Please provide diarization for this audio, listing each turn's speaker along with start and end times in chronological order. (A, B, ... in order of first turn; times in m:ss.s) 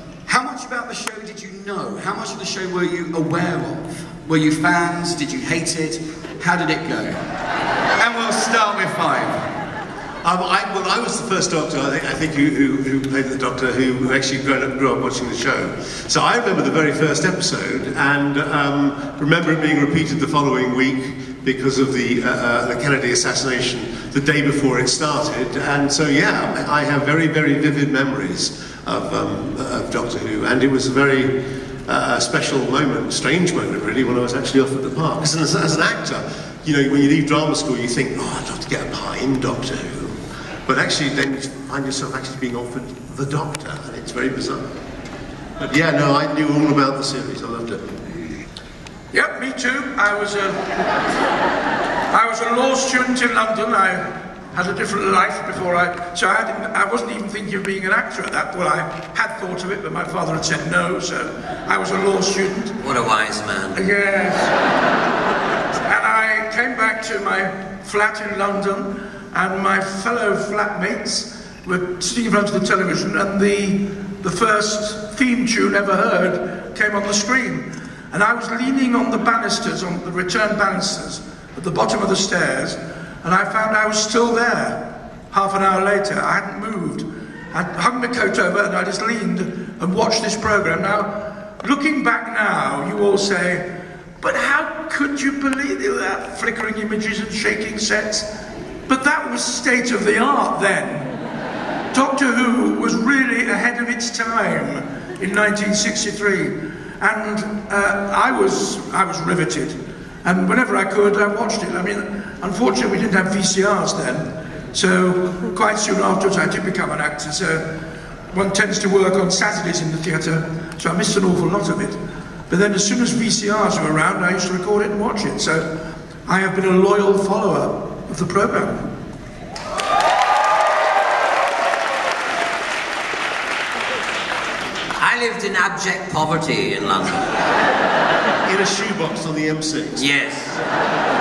0:00.2-0:07.2 A
0:08.0-0:09.4 A
0:10.2-0:31.3 B
0:31.9-0:44.6 B
0:45.6-0:47.9 B
0:49.1-0:50.6 C
0:52.1-0:54.0 C
0:54.5-1:02.7 C
1:02.8-1:03.8 D
1:03.8-1:04.6 C
1:05.8-1:33.6 C
1:34.2-1:38.3 C
1:38.9-1:41.1 C
1:41.9-1:57.7 C
1:58.3-2:02.0 C
2:02.5-2:05.7 C
2:06.2-2:08.9 C
2:15.0-2:17.3 D
2:18.4-2:20.0 B
2:19.9-2:20.6 D